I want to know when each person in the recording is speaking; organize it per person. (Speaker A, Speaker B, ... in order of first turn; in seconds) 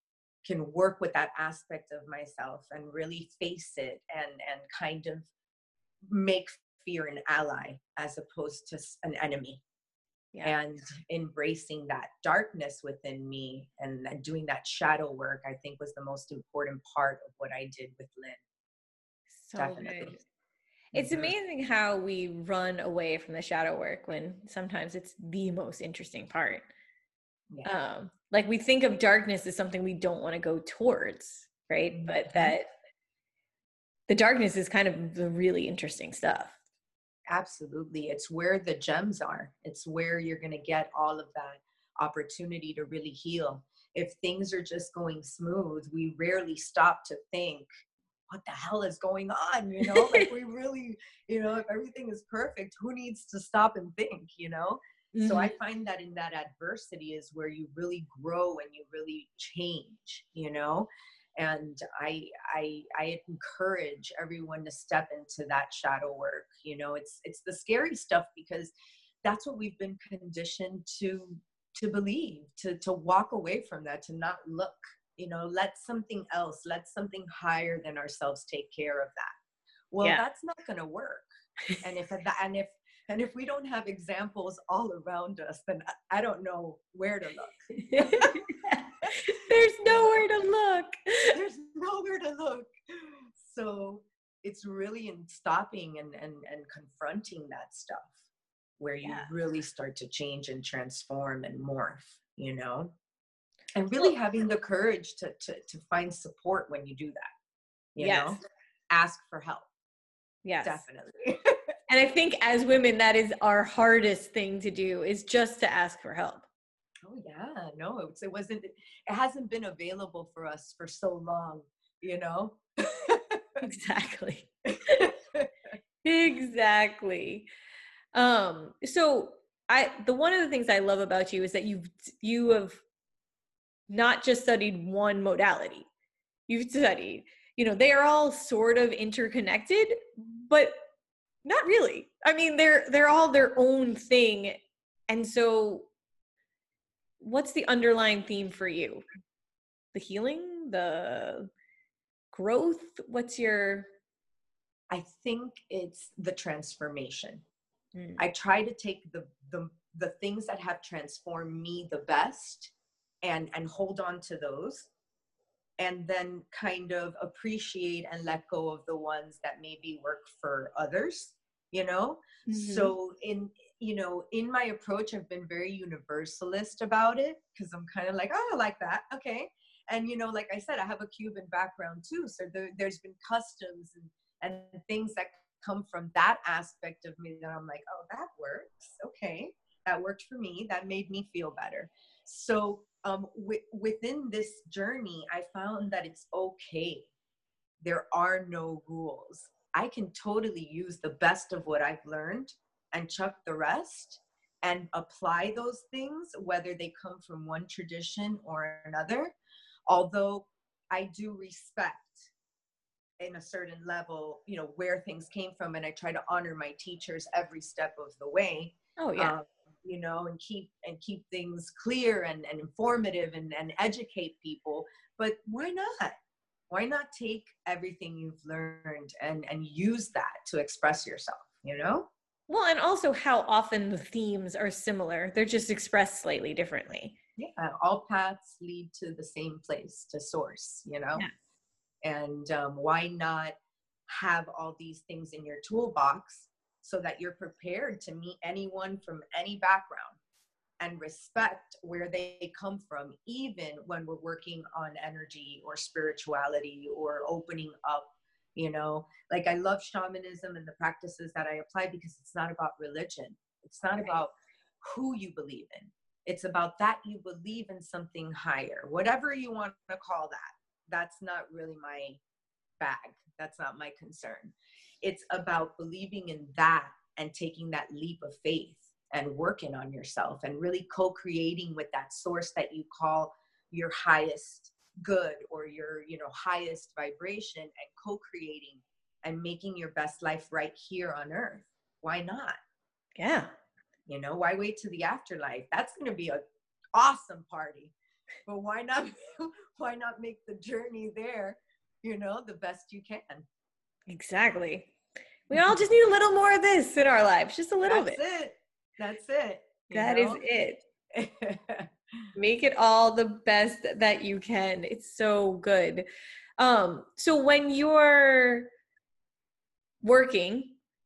Speaker A: 0.4-5.3, 6.1-9.6, 10.4-18.4, 19.6-20.2, 20.9-21.3, 31.9-32.5, 37.3-47.7, 48.3-68.7, 69.2-79.3, 79.9-81.3, 81.8-88.4, 91.3-98.1, 98.8-102.9, 103.7-107.3, 107.9-109.7, 110.6-111.6, 117.1-123.6, 124.7-125.5, 154.9-157.4, 158.2-164.9, 165.8-197.1, 197.8-209.3, 209.9-212.3, 213.2-226.2, 226.7-232.1, 237.4-241.3, 242.0-243.6, 244.1-250.2, 250.8-272.2, 272.8-292.6, 294.1-296.4, 296.9-297.9, 298.4-303.4, 305.5-305.8, 307.8-310.4, 311.1-312.2
Speaker B: 19.3-20.2, 20.9-26.6, 27.6-32.7, 34.1-36.5, 49.8-50.3, 55.1-55.5, 87.8-91.3, 99.0-99.3, 108.0-108.4, 110.4-110.8, 111.9-116.5, 123.6-125.0, 126.0-127.5, 128.1-132.8, 133.9-135.9, 136.5-140.8, 141.4-144.6, 145.1-145.9, 147.2-149.0, 149.9-151.5, 152.3-153.9, 172.5-172.9, 219.0-219.3, 232.5-237.2, 293.1-293.5, 304.1-304.9, 305.5-308.2, 309.9-310.8, 312.4-316.1, 316.6-318.7, 320.0-320.8